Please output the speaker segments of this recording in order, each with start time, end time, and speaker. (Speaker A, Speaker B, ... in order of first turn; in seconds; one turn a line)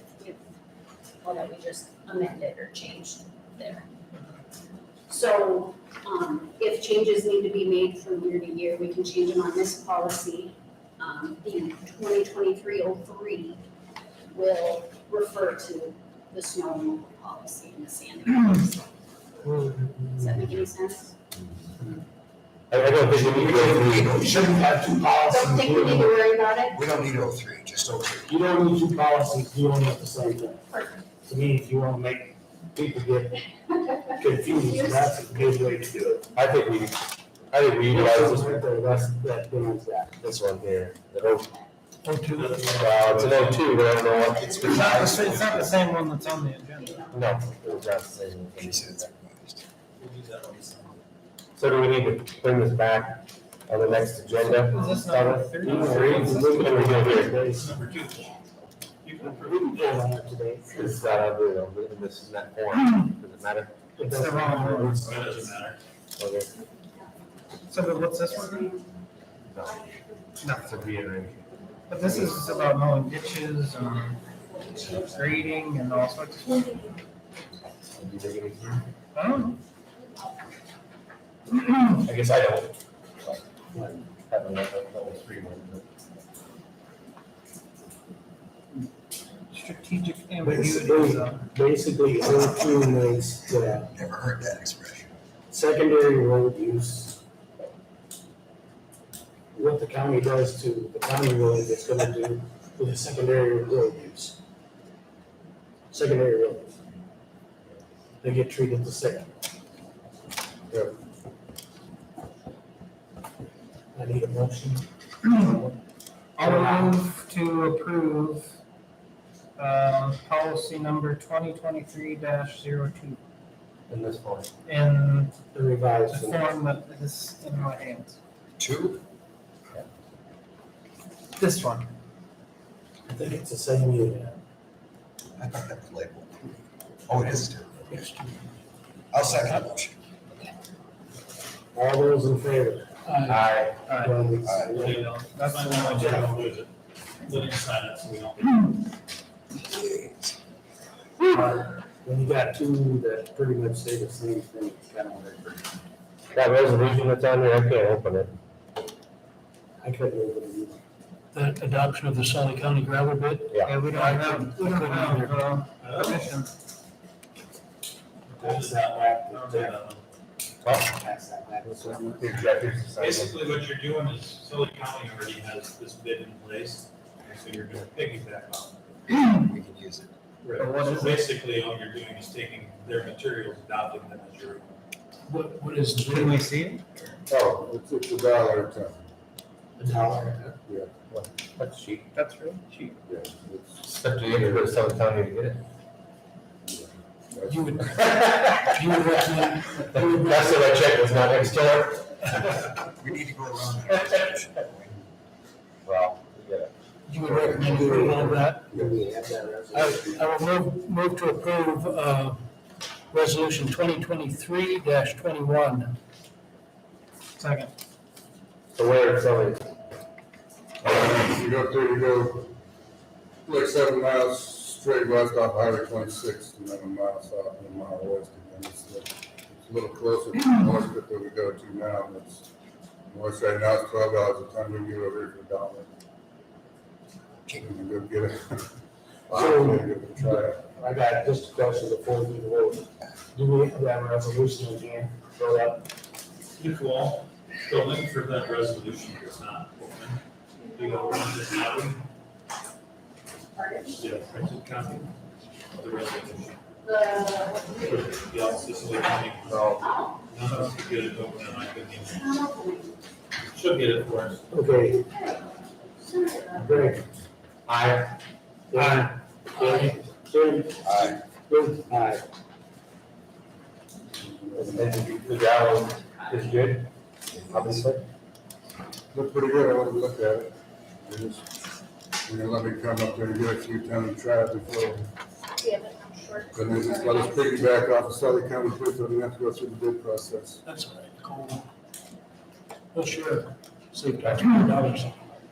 Speaker A: 1.2-3.9
Speaker A: 5.1-13.6
Speaker A: 14.3-18.9
Speaker A: 20.0-21.1
Speaker B: 22.7-24.3
Speaker C: 22.9-24.7
Speaker D: 23.3-26.1
Speaker A: 25.2-26.8
Speaker C: 26.7-28.4
Speaker D: 28.3-30.6
Speaker A: 30.7-31.0
Speaker D: 31.2-33.4
Speaker A: 33.9-35.1
Speaker D: 34.2-36.3
Speaker B: 36.3-39.1
Speaker D: 37.9-40.2
Speaker B: 40.2-41.5
Speaker E: 42.0-42.6
Speaker F: 42.3-43.8
Speaker B: 42.7-44.6
Speaker A: 44.1-47.4
Speaker C: 44.2-45.8
Speaker G: 44.6-47.1
Speaker B: 47.1-49.1
Speaker C: 48.6-49.6
Speaker F: 50.0-51.0
Speaker B: 51.5-57.4
Speaker G: 54.4-57.2
Speaker D: 55.6-57.7
Speaker F: 57.5-58.3
Speaker A: 58.0-58.4
Speaker F: 59.0-60.1
Speaker D: 59.2-61.2
Speaker B: 60.7-63.7
Speaker D: 64.0-65.5
Speaker G: 64.0-65.1
Speaker F: 65.0-65.8
Speaker B: 66.2-66.5
Speaker G: 67.7-68.7
Speaker A: 67.7-69.0
Speaker B: 69.5-69.8
Speaker A: 69.6-70.9
Speaker G: 70.4-70.8
Speaker B: 70.5-72.4
Speaker G: 71.9-74.2
Speaker A: 71.9-72.8
Speaker A: 73.8-77.0
Speaker G: 74.8-76.8
Speaker B: 77.9-78.8
Speaker G: 79.2-79.6
Speaker G: 81.5-82.0
Speaker B: 82.0-83.4
Speaker D: 83.7-84.0
Speaker B: 84.2-85.9
Speaker G: 89.5-91.5
Speaker D: 90.4-93.9
Speaker C: 93.8-95.1
Speaker D: 95.5-97.2
Speaker D: 99.5-104.4
Speaker D: 105.9-106.7
Speaker D: 108.2-109.3
Speaker D: 114.0-115.8
Speaker G: 116.4-118.6
Speaker D: 116.4-117.0
Speaker G: 119.6-123.2
Speaker B: 123.9-124.5
Speaker G: 124.7-125.3
Speaker D: 125.5-126.5
Speaker G: 126.1-128.2
Speaker C: 128.6-129.0
Speaker G: 131.4-131.9
Speaker D: 133.1-134.3
Speaker C: 135.3-136.6
Speaker C: 137.1-138.1
Speaker C: 139.1-140.0
Speaker D: 141.7-142.9
Speaker E: 143.1-143.7
Speaker B: 143.2-143.8
Speaker G: 143.9-144.1
Speaker D: 143.9-145.1
Speaker C: 144.4-144.8
Speaker F: 144.7-148.8
Speaker G: 144.8-146.3
Speaker D: 145.9-146.4
Speaker C: 149.6-150.3
Speaker D: 151.2-155.6
Speaker B: 156.3-158.3
Speaker D: 159.8-160.8
Speaker E: 161.3-165.4
Speaker B: 163.5-163.8
Speaker G: 163.6-166.5
Speaker F: 165.8-166.3
Speaker F: 168.3-170.0
Speaker D: 168.3-169.8
Speaker B: 170.6-170.9
Speaker D: 170.8-172.4
Speaker B: 171.6-173.5
Speaker F: 173.0-178.8
Speaker C: 179.1-180.1
Speaker F: 180.4-184.8
Speaker G: 180.5-181.3
Speaker E: 185.3-186.5
Speaker G: 186.1-186.8
Speaker H: 187.3-189.0
Speaker D: 189.8-190.6
Speaker B: 191.1-192.0
Speaker G: 192.1-193.0
Speaker H: 193.1-194.7
Speaker B: 193.8-195.6
Speaker H: 196.7-197.7
Speaker E: 197.4-200.3
Speaker B: 197.9-198.8
Speaker B: 199.8-202.4
Speaker D: 200.1-200.4
Speaker C: 202.3-204.9
Speaker B: 205.8-206.7
Speaker E: 207.1-208.7
Speaker H: 207.2-209.0
Speaker D: 207.7-210.3
Speaker E: 209.7-212.4
Speaker E: 213.1-215.9
Speaker G: 217.4-217.7
Speaker B: 218.7-219.7
Speaker H: 220.8-222.5
Speaker H: 223.4-232.4
Speaker H: 233.1-235.9
Speaker C: 237.4-237.7
Speaker H: 237.6-238.6
Speaker H: 239.3-240.7
Speaker D: 239.3-245.9
Speaker F: 246.6-250.2
Speaker A: 250.6-251.5
Speaker F: 250.8-252.0
Speaker A: 253.5-254.1
Speaker F: 254.0-255.1
Speaker F: 255.7-256.6
Speaker A: 256.8-259.1
Speaker F: 257.8-262.4
Speaker B: 259.5-259.8
Speaker A: 259.7-260.2
Speaker A: 262.0-263.0
Speaker F: 263.5-264.4
Speaker D: 264.5-265.0
Speaker A: 264.7-266.9
Speaker D: 266.6-267.1
Speaker B: 267.7-268.2
Speaker D: 268.7-272.2
Speaker G: 268.8-269.1
Speaker C: 270.8-271.2
Speaker H: 274.2-274.8
Speaker B: 274.6-276.9
Speaker B: 277.5-278.0
Speaker H: 279.1-281.4
Speaker H: 282.2-285.1
Speaker A: 285.6-287.7
Speaker H: 286.5-290.6
Speaker E: 290.7-291.7
Speaker E: 292.9-295.2